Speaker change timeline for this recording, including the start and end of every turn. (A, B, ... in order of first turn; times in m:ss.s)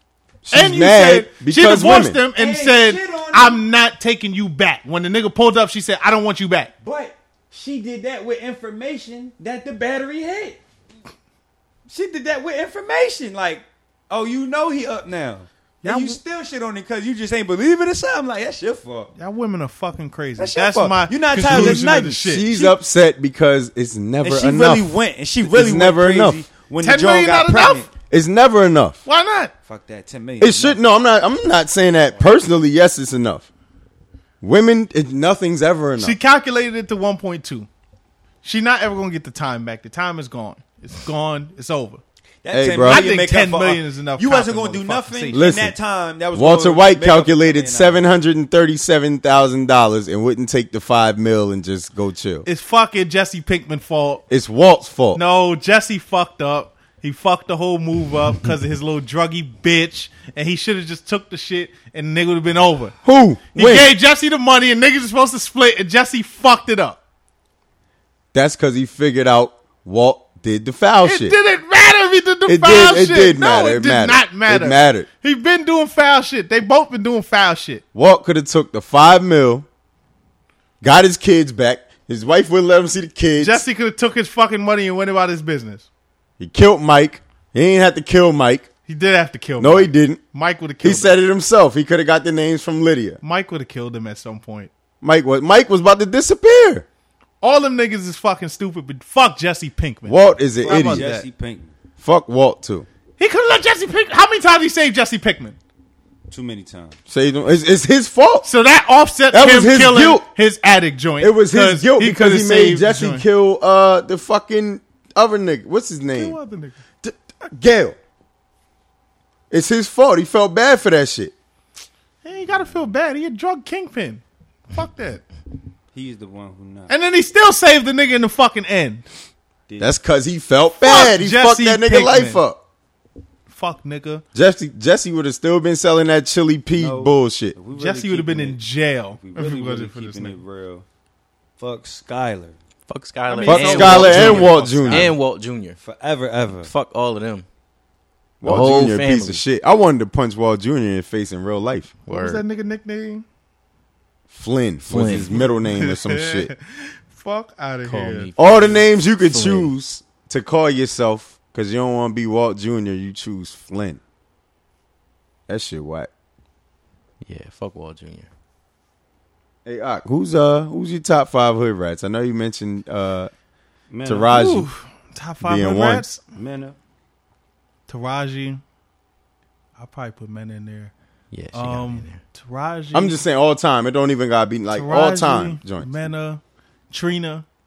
0:00.4-0:02.2 A
0:00.5-0:06.7 B
0:02.4-0:03.6 C
0:06.8-0:10.6 C
0:11.9-0:19.1 C
0:15.8-0:16.2 B
0:19.2-0:22.7 B
0:20.4-0:22.7 C
0:21.4-0:26.4 A
0:24.2-0:27.9 C
0:26.8-0:27.9 B
0:28.1-0:29.0 A
0:29.0-0:29.5 B
0:29.7-0:30.8 C
0:30.4-0:33.5 A
0:34.4-0:36.2 A
0:36.0-0:37.7 B
0:38.4-0:42.0 B
0:42.4-0:48.0 C
0:42.5-0:43.1 A
0:42.8-0:45.5 B
0:45.3-0:45.8 A
0:46.3-0:52.5 A
0:52.4-0:54.2 B
0:54.3-0:55.2 A
0:55.1-1:03.0 B
1:03.0-1:03.9 A
1:03.5-1:07.0 B
1:08.3-1:11.4 A
1:11.0-1:17.8 B
1:12.5-1:15.1 A
1:17.9-1:19.7 A
1:20.8-1:23.6 A
1:23.4-1:25.9 B
1:26.4-1:28.7 A
1:28.9-1:31.2 B
1:29.6-1:30.2 A
1:30.8-1:33.2 A
1:33.2-1:34.7 B
1:35.0-1:36.9 A
1:37.4-1:41.3 B
1:40.1-1:41.1 A
1:40.6-1:41.7 C
1:42.0-1:42.9 A
1:43.2-1:45.6 B
1:46.3-1:47.0 C
1:47.1-1:48.5 A
1:48.4-1:53.2 B
1:49.3-1:50.3 A
1:51.2-1:56.4 A
1:56.2-1:56.8 B
1:57.0-1:58.0 A
1:59.5-2:01.3 A
2:02.2-2:05.2 B
2:05.9-2:06.9 C
2:06.9-2:09.1 B
2:09.7-2:10.0 C
2:09.8-2:12.6 A
2:10.8-2:12.4 B
2:13.5-2:14.2 B
2:14.4-2:17.6 A
2:16.8-2:18.6 C
2:17.7-2:20.4 B
2:19.2-2:20.8 C
2:21.6-2:22.6 C
2:22.9-2:25.8 D
2:23.3-2:25.1 B
2:23.5-2:25.1 A
2:23.6-2:24.5 C
2:25.8-2:26.7 C
2:26.6-2:27.4 D
2:28.4-2:32.0 A
2:28.4-2:29.4 D
2:32.1-2:32.4 D
2:32.1-2:33.2 B
2:34.3-2:36.5 A
2:34.8-2:35.3 D
2:35.3-2:38.3 B
2:37.8-2:39.7 D
2:38.4-2:44.0 A
2:45.5-2:46.1 A
2:47.2-2:48.3 D
2:49.6-2:53.3 A
2:53.9-2:54.3 C
2:54.0-2:54.7 A
2:54.3-2:56.2 B
2:55.4-2:56.0 A
2:56.3-2:56.8 C
2:57.9-2:58.6 B
2:59.8-3:00.9 B
3:01.3-3:02.2 D
3:01.5-3:03.2 B
3:02.9-3:06.0 A
3:04.7-3:07.4 B